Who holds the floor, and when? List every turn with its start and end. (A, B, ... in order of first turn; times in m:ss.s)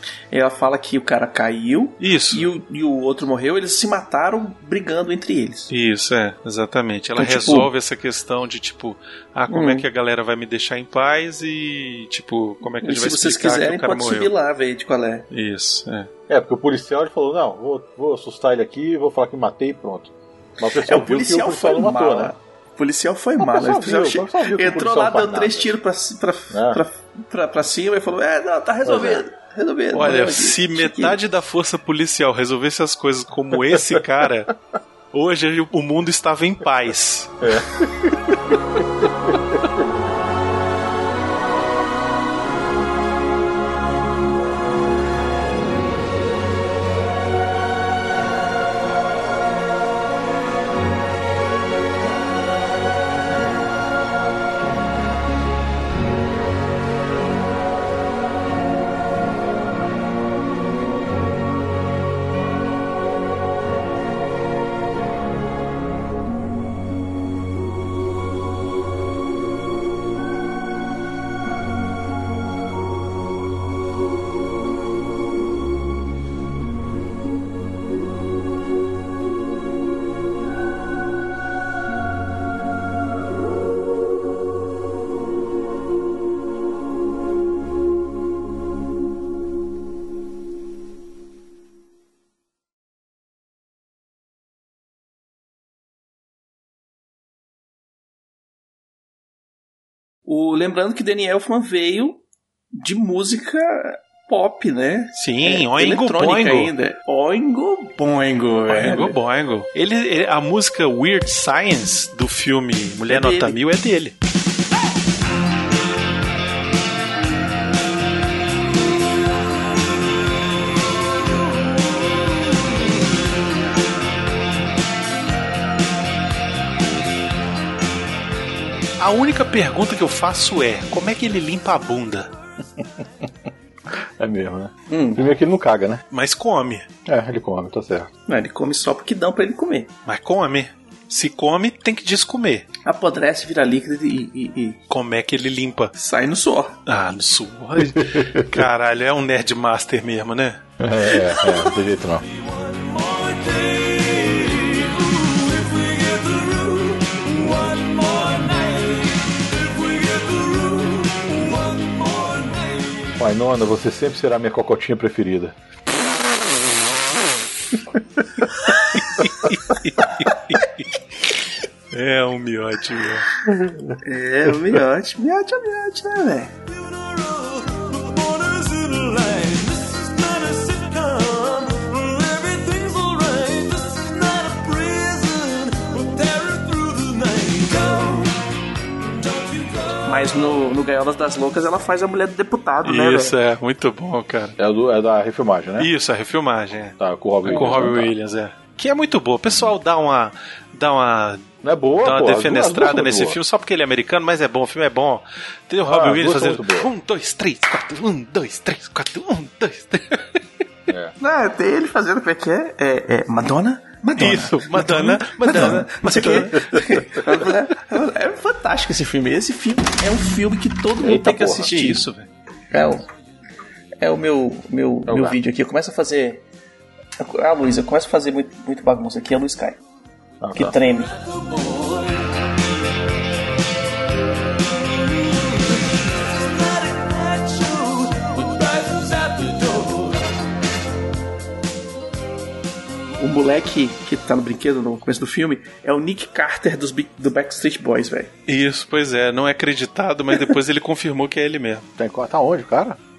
0:00.3-0:05.7 A
0:02.0-0:02.5 B
0:05.7-0:14.3 B
0:07.2-0:07.7 A
0:09.5-0:09.8 A
0:12.8-0:15.2 A
0:15.3-0:16.1 B
0:16.3-0:22.3 C
0:20.6-0:31.2 A
0:23.4-0:25.7 C
0:26.5-0:26.8 C
0:28.8-0:29.2 C
0:29.9-0:34.5 B
0:35.1-0:37.5 B
0:37.4-0:38.4 C
1:40.2-1:42.2 A
1:42.8-1:49.2 A
1:45.2-1:46.7 B
1:48.7-1:54.1 B
1:53.1-1:53.5 A
2:09.0-2:12.3 B
2:12.8-2:16.0 C
2:14.9-2:15.2 A
2:16.1-2:16.9 B
2:17.0-2:18.1 C
2:18.3-2:19.9 A
2:20.0-2:22.6 B
2:22.8-2:24.8 A
2:24.9-2:25.9 B
2:26.0-2:26.8 A
2:26.8-2:30.6 B
2:27.9-2:28.4 C
2:30.8-2:32.2 C
2:43.2-2:45.5 C
2:49.2-2:50.8 B
2:51.9-2:53.3 B
2:53.5-2:53.9 C
2:54.0-2:56.5 A
3:00.7-3:01.2 B
3:02.3-3:03.2 B
3:04.0-3:05.2 B
3:06.5-3:07.0 B
3:10.0-3:13.3 A
3:12.8-3:14.5 B
3:14.6-3:15.9 C
3:15.8-3:30.4 B
3:17.0-3:18.1 C
3:21.6-3:23.4 C
3:25.8-3:26.9 C
3:30.9-3:31.1 C
3:31.2-3:42.0 A
3:34.2-3:36.6 B
3:35.6-3:37.0 C
3:41.0-3:41.7 C
3:41.7-3:42.3 B
3:42.7-3:43.0 A
3:44.0-3:46.4 A
3:45.1-3:45.4 C
3:47.2-3:49.8 A
3:50.4-3:50.7 C
3:50.6-3:51.2 A
4:03.2-4:08.3 A
4:08.5-4:11.8 B
4:12.0-4:13.0 C